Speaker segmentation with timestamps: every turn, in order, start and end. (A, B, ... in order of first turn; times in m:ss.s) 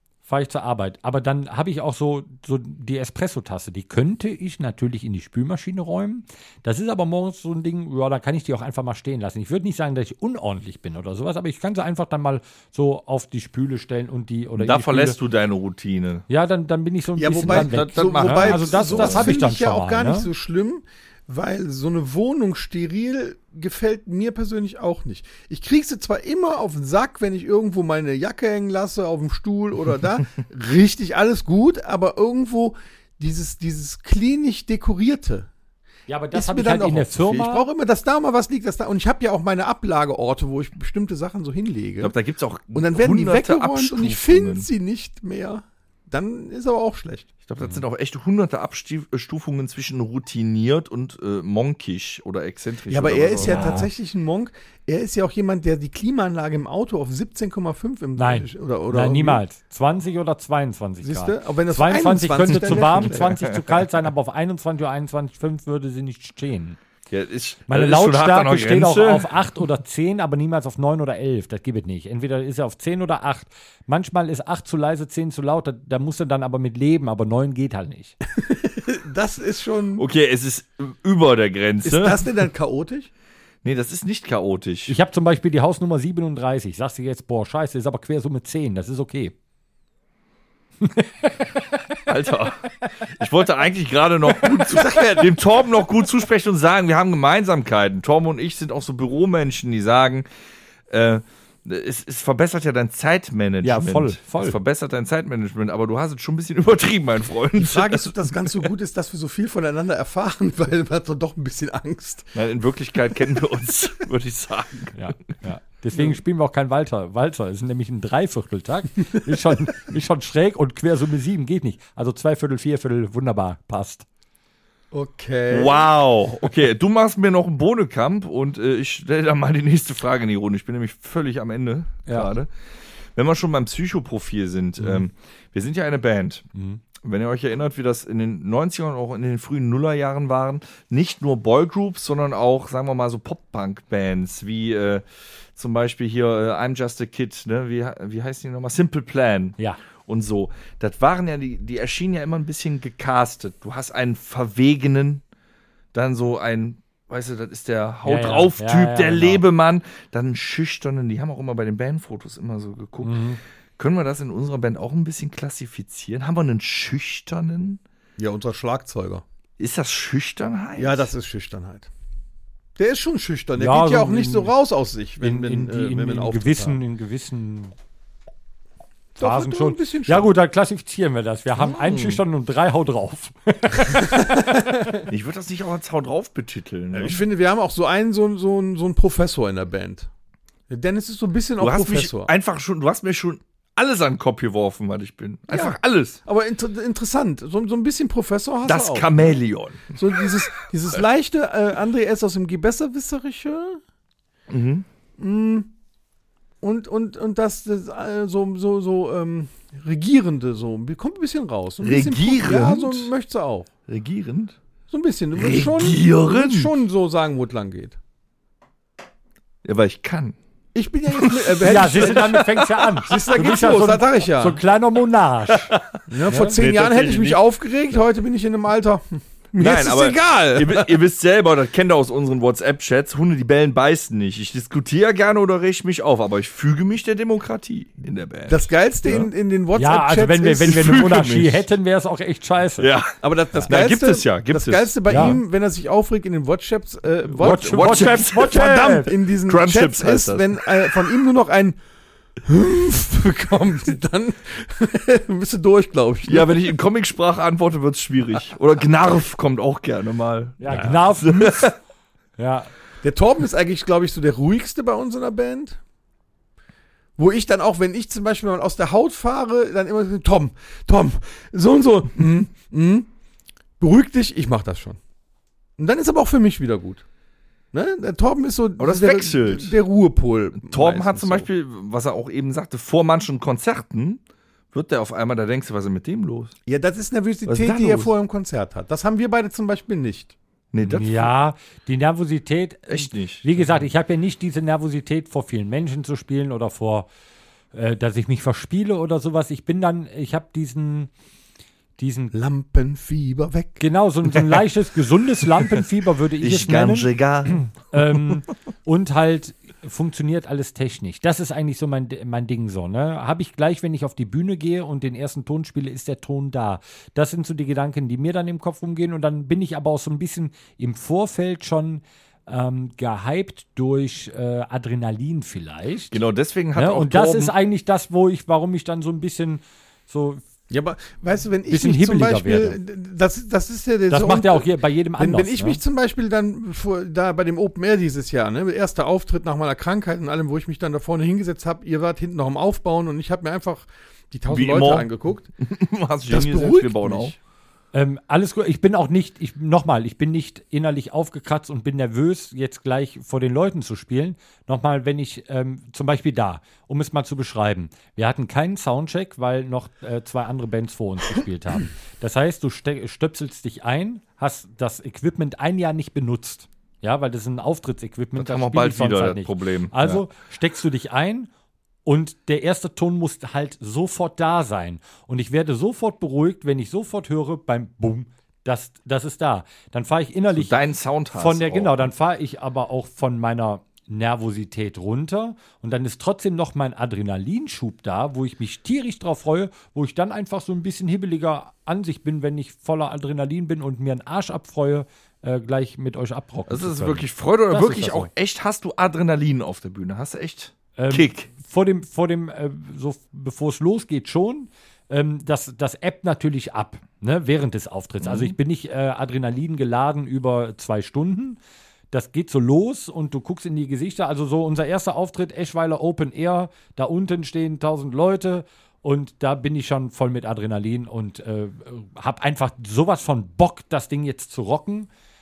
0:00.2-0:15.2 A
0:14.6-0:16.2 B
0:16.3-0:20.3 A
0:17.2-0:35.5 C
0:17.4-0:19.3 B
0:36.1-0:37.7 A
0:36.3-0:42.1 C
0:42.0-0:44.7 B
0:42.7-0:47.3 C
0:47.4-0:53.8 B
0:52.9-0:59.4 C
0:53.4-0:53.9 A
0:58.2-1:06.8 A
1:01.0-1:03.4 C
1:02.5-1:03.5 B
1:07.1-1:09.3 B
1:07.7-1:18.2 A
1:18.4-1:20.0 C
1:20.0-1:22.2 B
1:21.8-1:23.1 C
1:23.6-1:24.9 B
1:24.9-1:29.3 A
1:30.8-1:31.3 A
1:32.0-1:40.2 B
1:34.7-1:35.0 C
1:40.9-1:48.5 B
1:43.6-1:44.6 A
1:47.6-1:52.3 C
1:52.3-1:55.0 B
1:54.9-2:04.0 A
2:04.9-2:05.9 C
2:05.5-2:12.5 B
2:12.1-2:12.3 A
2:13.1-2:16.4 B
2:14.8-2:15.0 A
2:16.5-2:16.8 A
2:17.0-2:25.0 B
2:25.6-2:35.2 B
2:35.9-2:43.2 B
2:38.0-2:39.4 A
2:43.0-2:43.4 A
2:43.8-2:47.8 B
2:48.2-2:49.2 C
2:49.6-2:51.1 B
2:50.8-2:51.9 C
2:52.8-2:56.8 C
2:53.6-2:54.5 A
2:55.2-2:57.7 A
2:59.2-3:00.3 C
2:59.2-3:05.0 A
3:01.7-3:02.2 B
3:05.0-3:07.2 B
3:06.9-3:10.1 C
3:10.7-3:12.3 C
3:11.6-3:16.2 B
3:15.5-3:19.4 C
3:18.6-3:20.0 B
3:19.9-3:23.8 C
3:24.5-3:24.8 B
3:25.2-3:25.7 C
3:26.6-3:33.7 C
3:31.8-3:33.1 B
3:33.9-3:34.6 B
3:34.9-3:38.0 C
3:35.4-3:36.7 B
3:39.6-3:40.4 B
3:40.7-3:44.6 C
3:41.2-3:42.6 B
3:41.6-3:46.6 A
3:46.1-3:51.0 C
3:46.6-3:47.4 B
3:49.6-3:59.3 B
3:58.5-4:01.5 C
3:59.8-4:02.9 A
4:00.6-4:01.6 B
4:02.8-4:05.4 B
4:03.2-4:11.8 C
4:05.1-4:05.4 A
4:07.4-4:09.1 A
4:07.4-4:08.7 B
4:09.4-4:11.0 B
4:12.4-4:16.7 C
4:16.2-4:21.8 B
4:20.6-4:21.7 A
4:22.4-4:22.7 A
4:23.0-4:25.8 C
4:27.2-4:33.1 C
4:33.8-4:35.0 C
4:35.8-4:37.0 C
4:37.7-4:41.5 C
4:38.8-4:39.8 B
4:40.6-4:44.2 B
4:44.7-4:46.5 B
4:46.6-4:50.3 C
4:47.4-4:48.1 B
4:50.7-4:51.3 B
4:50.8-4:57.1 A
4:52.9-4:53.8 B
4:57.7-5:01.1 A
5:02.0-5:02.3 A
5:02.3-5:03.8 C
5:03.8-5:26.2 A
5:06.4-5:07.6 B
5:26.1-5:27.5 B
5:26.8-5:30.4 A
5:30.7-5:45.5 C
5:31.7-5:32.8 A
5:34.1-5:35.8 A
5:44.5-5:45.1 B
5:45.6-5:47.4 B
5:46.3-5:47.3 C
5:47.9-6:11.5 A
6:08.4-6:10.2 B
6:12.0-6:20.7 A
6:20.5-6:22.1 B
6:21.3-6:38.3 A
6:36.7-6:41.5 B
6:41.0-6:51.6 A
6:48.2-6:48.5 B
6:52.1-7:05.1 A